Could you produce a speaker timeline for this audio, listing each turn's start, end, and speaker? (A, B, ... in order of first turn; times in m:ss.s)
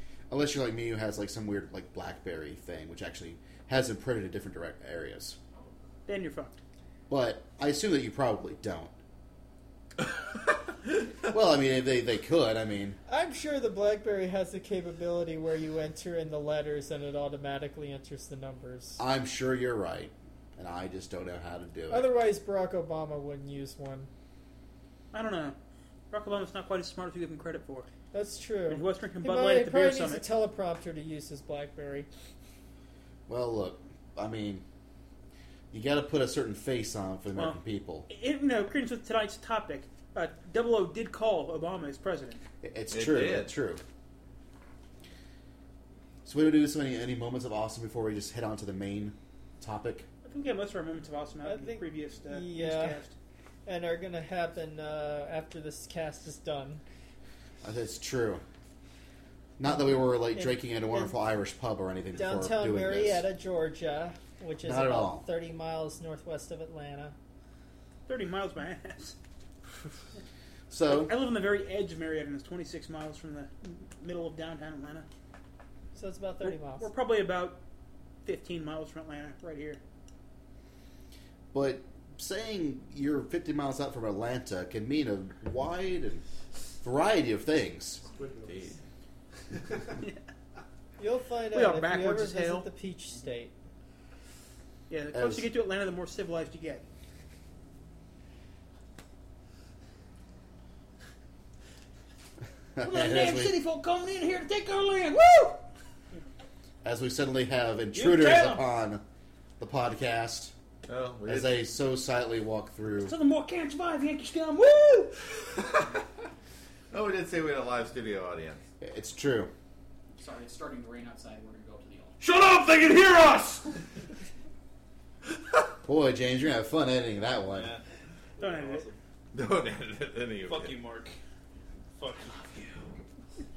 0:00.3-0:05.4 A
0:06.1-0:06.6 B
0:07.1-0:08.9 A
0:11.2-0:13.0 A
0:13.1-0:19.0 C
0:19.0-0:22.1 A
0:21.9-0:24.1 C
0:25.1-0:25.6 B
0:26.1-0:27.9 B
0:28.1-0:32.1 C
0:28.7-0:30.2 B
0:33.3-0:34.6 A
0:35.7-0:38.1 A
0:37.3-0:42.4 B
0:42.6-0:43.8 A
0:42.9-0:43.5 D
0:46.2-0:50.1 A
0:50.2-0:53.1 B
0:51.4-0:53.0 C
0:53.7-0:56.8 C
0:57.6-0:58.4 A
0:59.6-1:03.2 A
1:00.3-1:01.2 C
1:02.1-1:07.2 C
1:04.6-1:05.2 A
1:08.1-1:09.2 B
1:10.7-1:11.1 A
1:10.9-1:15.1 B
1:16.0-1:16.9 C
1:16.4-1:17.6 B
1:18.2-1:19.8 B
1:21.5-1:26.2 A
1:26.8-1:28.0 A
1:28.2-1:28.8 D
1:31.0-1:33.5 C
1:31.5-1:32.7 B
1:34.9-1:36.8 B
1:35.1-1:35.5 A
1:42.8-1:43.6 A
1:42.8-1:45.6 B
1:46.8-1:49.0 A
1:47.9-1:48.7 B
1:49.6-1:50.5 A
1:50.9-1:51.5 D
1:51.2-1:53.1 A
1:53.0-1:55.3 B
1:55.6-1:56.1 D
1:56.9-1:58.6 D
1:58.8-1:59.5 A
2:00.2-2:02.2 E
2:02.2-2:03.8 D
2:05.8-2:07.7 A
2:08.4-2:08.9 B
2:08.4-2:08.9 F
2:09.3-2:10.8 D
2:10.5-2:11.2 F
2:12.0-2:12.8 F